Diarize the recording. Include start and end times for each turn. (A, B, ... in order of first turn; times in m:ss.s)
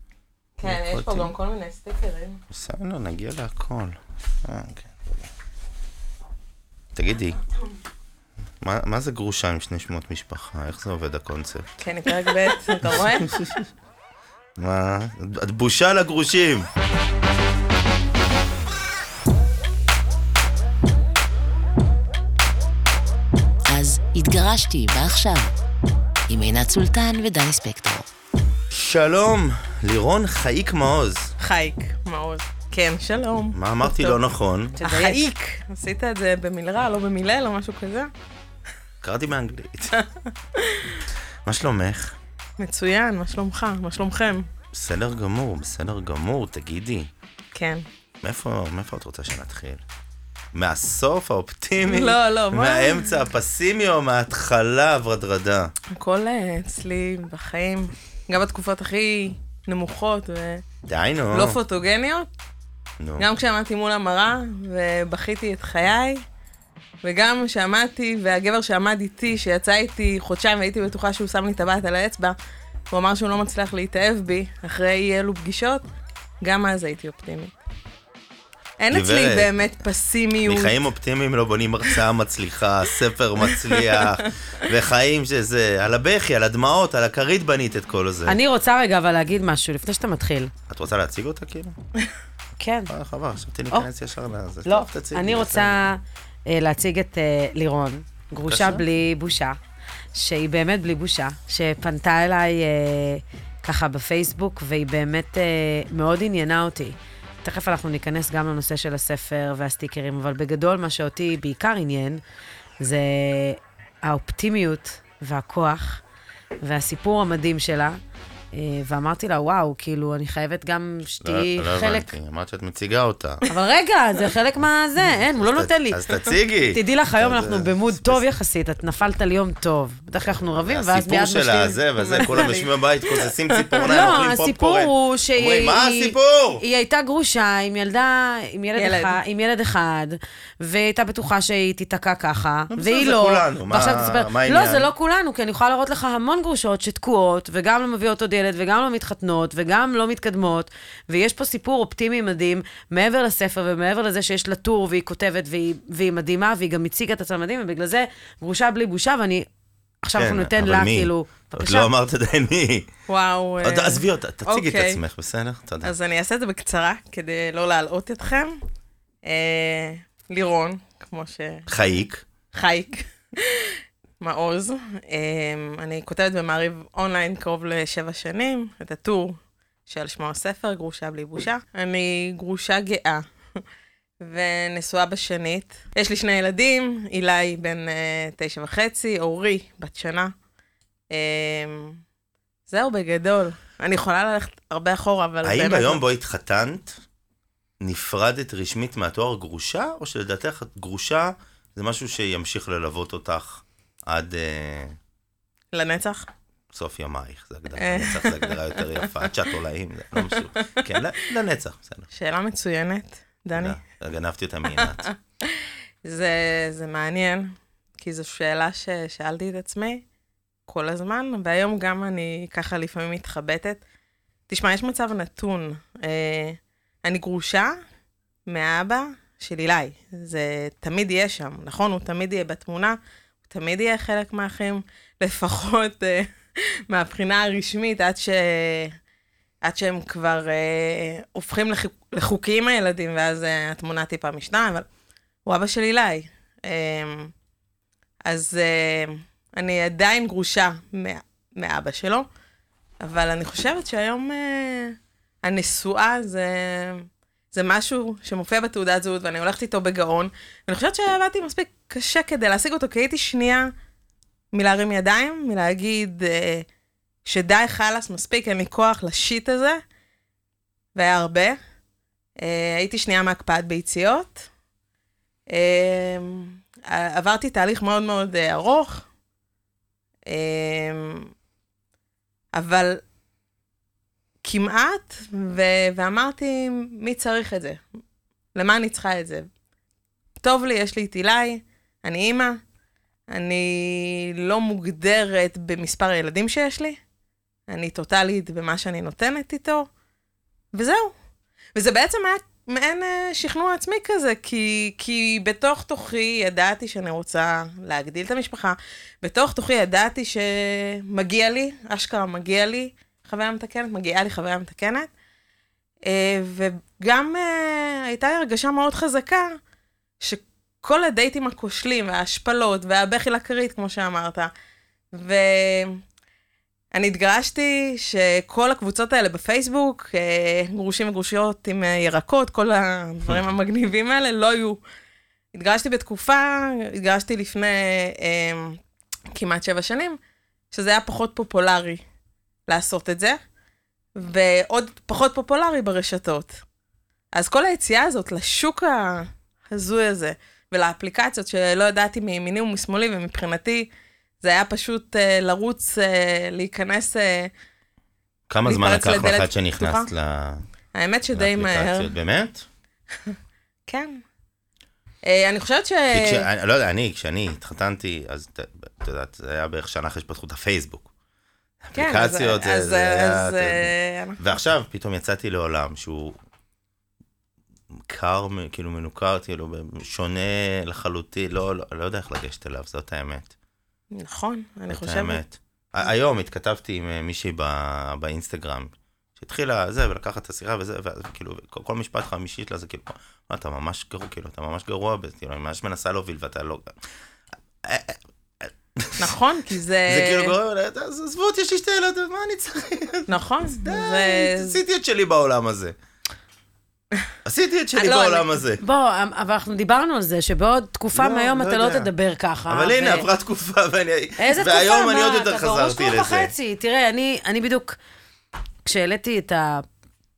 0:00.6-0:02.4 A
0:00.6-0:01.3 B
0:02.5-0:05.3 B
0:06.9-0:07.4 B
0:08.6-0:11.7 B
0:11.8-0:13.4 A
0:12.8-0:13.6 B
0:14.6-0:16.7 B
0:23.7-0:25.5 C
0:26.3-0:28.1 C
0:28.7-0:31.3 B
0:31.4-0:34.2 A
0:33.5-0:34.8 B
0:34.8-0:35.2 D
0:34.8-0:38.1 A
0:39.0-0:40.0 B
0:40.0-0:41.0 A
0:41.4-0:42.2 B
0:42.6-0:44.5 A
0:44.7-0:47.1 B
0:47.5-0:47.8 A
0:48.2-0:49.8 B
0:50.5-0:55.7 B
0:51.8-0:53.2 A
0:55.9-1:00.6 A
1:00.8-1:01.6 B
1:01.3-1:02.3 A
1:03.0-1:03.2 B
1:03.2-1:06.2 A
1:07.0-1:12.3 A
1:12.9-1:15.8 A
1:16.4-1:17.5 A
1:18.8-1:20.8 A
1:18.9-1:19.5 B
1:20.4-1:28.4 B
1:23.4-1:24.2 A
1:28.2-1:30.5 D
1:30.7-1:31.8 B
1:32.6-1:32.9 D
1:32.9-1:35.8 B
1:34.6-1:39.6 D
1:38.4-1:38.8 B
1:40.1-1:52.2 D
1:52.8-1:56.0 D
1:56.6-1:58.0 D
1:58.5-2:02.1 D
2:01.2-2:03.4 B
2:03.5-2:12.5 D
2:05.0-2:08.2 B
2:10.2-2:16.6 B
2:12.2-2:13.8 A
2:13.8-2:39.5 D
2:18.8-2:19.2 A
2:22.7-2:24.9 B
2:40.0-2:41.9 D
2:40.2-2:42.9 B
2:43.1-2:45.0 A
2:43.6-2:45.9 B
2:45.8-2:48.6 A
2:49.2-2:51.7 A
2:51.7-2:52.2 B
2:52.5-3:03.2 A
3:04.2-3:10.3 A
3:11.1-3:12.0 A
3:12.7-3:16.0 A
3:15.4-3:17.0 B
3:17.8-3:25.0 B
3:25.7-3:26.3 A
3:26.7-3:32.1 B
3:27.8-3:29.2 A
3:30.2-3:30.8 A
3:32.1-3:33.8 A
3:33.5-3:35.1 B
3:34.7-3:40.0 A
3:40.7-3:43.8 A
3:44.5-3:47.8 A
3:48.5-3:56.3 A
3:56.9-3:59.0 A
3:59.6-4:04.8 A
4:05.4-4:07.3 A
4:08.2-4:12.3 A
4:13.0-4:23.7 A
4:24.5-4:26.6 A
4:27.2-4:29.8 A
4:31.0-4:31.6 A
4:32.4-4:34.5 A
4:35.5-4:39.1 A
4:40.3-4:41.3 A
4:42.6-4:43.0 A
4:44.4-4:47.8 A
4:48.6-4:49.5 A
4:50.4-4:52.6 A
4:53.3-4:57.0 A
4:57.7-4:59.9 A
5:00.7-5:01.1 A
5:01.8-5:15.1 A
5:16.1-5:19.6 A
5:20.2-5:24.5 A
5:25.1-5:26.0 A
5:26.9-5:34.8 A
5:35.6-5:38.8 A
5:39.3-5:40.2 A
5:40.7-5:42.0 A
5:42.7-5:43.4 A
5:44.2-5:46.6 A
5:47.3-5:53.9 A
5:54.4-5:57.5 A
5:58.5-6:00.6 B
5:58.6-6:00.1 A
6:01.0-6:02.1 A
6:01.3-6:02.6 B
6:03.9-6:04.2 A
6:05.3-6:06.5 A
6:06.1-6:11.1 B
6:11.8-6:16.4 B
6:12.0-6:14.4 A
6:17.9-6:23.5 B
6:24.1-6:25.4 A
6:24.9-6:37.0 B
6:37.8-6:39.3 B
6:39.2-6:40.5 A
6:40.0-6:43.3 B
6:43.3-6:44.8 A
6:43.8-6:46.0 B
6:47.4-6:48.8 B
6:48.0-6:48.5 A
6:48.8-6:53.2 D
6:51.1-6:52.1 B
6:52.7-6:56.5 B
6:54.4-6:58.0 D
6:58.8-6:59.8 D